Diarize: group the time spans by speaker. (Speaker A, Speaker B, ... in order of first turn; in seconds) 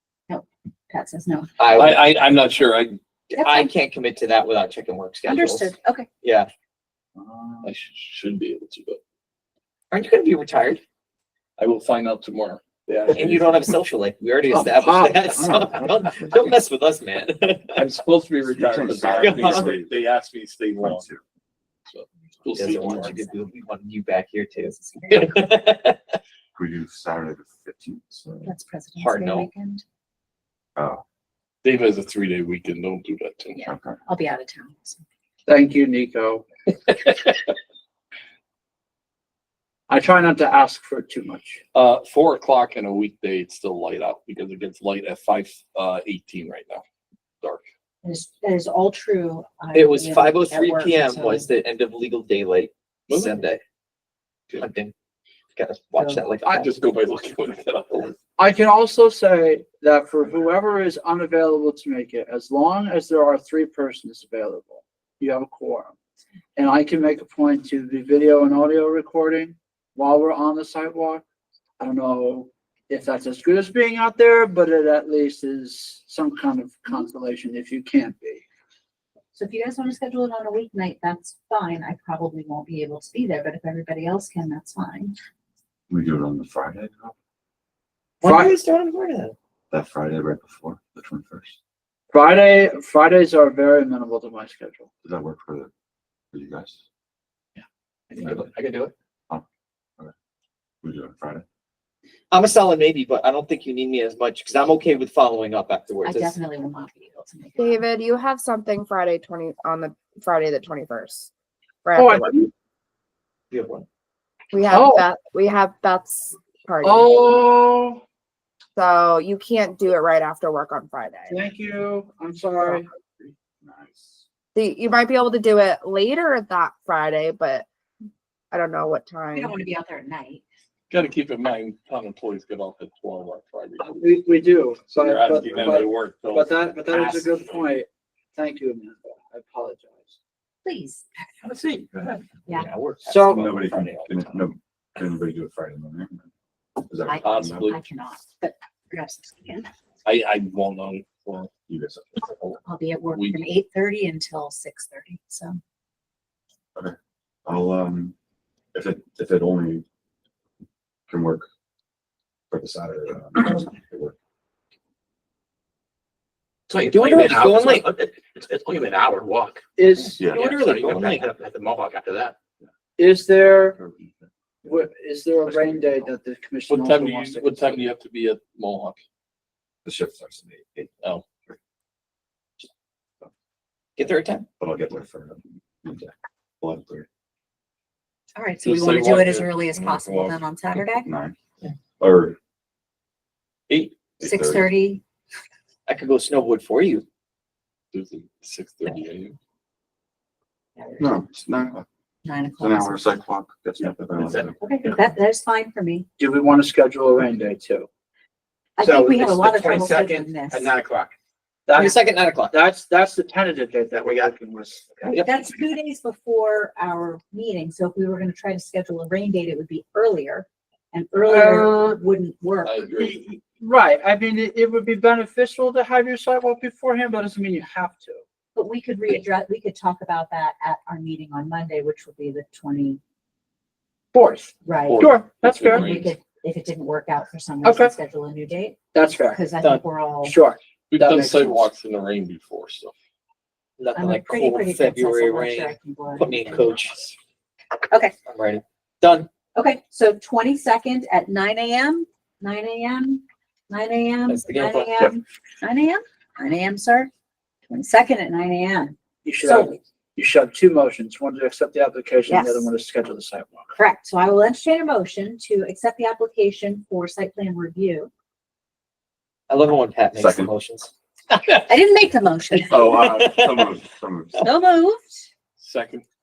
Speaker A: 0.3-1.5, 3.4-3.7, 5.2-6.1, 22.5-23.4, 24.7-25.4, 28.4-29.8, 33.6-35.0, 48.0-51.5, 56.0-56.2, 79.3-85.2, 106.0-107.8, 129.3-130.4, 140.6-141.0, 147.1-149.7, 152.6-155.6, 188.3-191.1, 194.2-195.0, 200.8-201.2, 202.2-203.1, 204.6-206.1, 208.8-210.7, 215.2-222.8, 228.6-233.0, 234.6-240.4, 243.9-246.8, 249.6-257.1, 257.7-259.8, 262.3-262.7, 263.7-268.1, 271.5-273.0, 274.4-275.3
Speaker B: 1.6-2.0, 3.3-6.5, 9.9-10.8, 13.1-17.8, 19.1-19.8, 22.6-26.0, 29.0-29.5, 49.7-53.6, 54.5-54.9, 55.5-56.8, 88.2-89.4, 102.3-106.3, 113.5-113.9, 142.5-144.5, 166.8-167.9, 170.0-171.3, 184.0-184.5, 193.7-193.9, 195.9-197.1, 211.8-212.6, 215.0-215.3, 243.8-247.2, 248.3-249.3, 254.3-255.1, 269.5-270.9, 272.7-273.7
Speaker C: 1.8-3.0, 7.6-9.0, 11.6-13.6, 17.8-21.1, 21.9-23.2, 31.6-33.6, 36.9-37.5, 41.7-46.8, 53.1-53.4, 56.5-58.1, 130.9-134.0, 134.9-137.7, 147.2-147.8, 150.1-151.5, 153.1-153.4, 176.7-179.0, 188.6-190.4, 197.9-199.4, 222.6-223.2, 234.9-236.2, 240.9-242.9, 275.6-276.1
Speaker D: 7.2-7.7, 14.5-15.6, 35.5-36.5, 39.9-41.6, 58.4-66.0, 66.6-71.2, 71.8-78.4, 88.2-88.6, 92.1-94.9, 112.0-112.5, 114.7-115.1, 116.8-118.0, 121.3-122.9, 133.8-140.2, 143.1-143.5, 169.8-170.2, 173.0-173.8, 174.6-177.8, 206.2-207.9, 208.8-210.4, 211.7-215.2, 221.2-222.0, 223.0-228.2, 234.1-235.9, 237.6-237.9, 238.9-239.5, 240.2-241.7, 259.2-263.7
Speaker E: 15.4-16.6, 18.5-20.0, 20.8-21.2, 26.6-28.5, 30.8-31.0, 33.6-34.0, 85.9-87.2, 89.7-91.6, 95.0-95.7, 96.3-96.8, 100.8-101.5, 122.7-124.3, 143.2-147.7, 151.7-152.3, 156.8-158.1, 158.7-159.8, 161.1-161.5, 162.5-164.2, 170.2-170.5, 173.5-174.3, 175.4-176.1, 179.8-181.6, 184.6-187.1, 191.1-191.4, 192.0-192.4, 194.2-194.7, 201.0-201.8, 202.6-204.6, 270.1-270.5, 272.7-274.4
Speaker F: 107.6-111.3, 111.8-112.5, 114.5-117.2, 118.8-121.4, 124.5-127.7, 128.5-129.6
Speaker G: 166.7-169.6, 170.3-172.3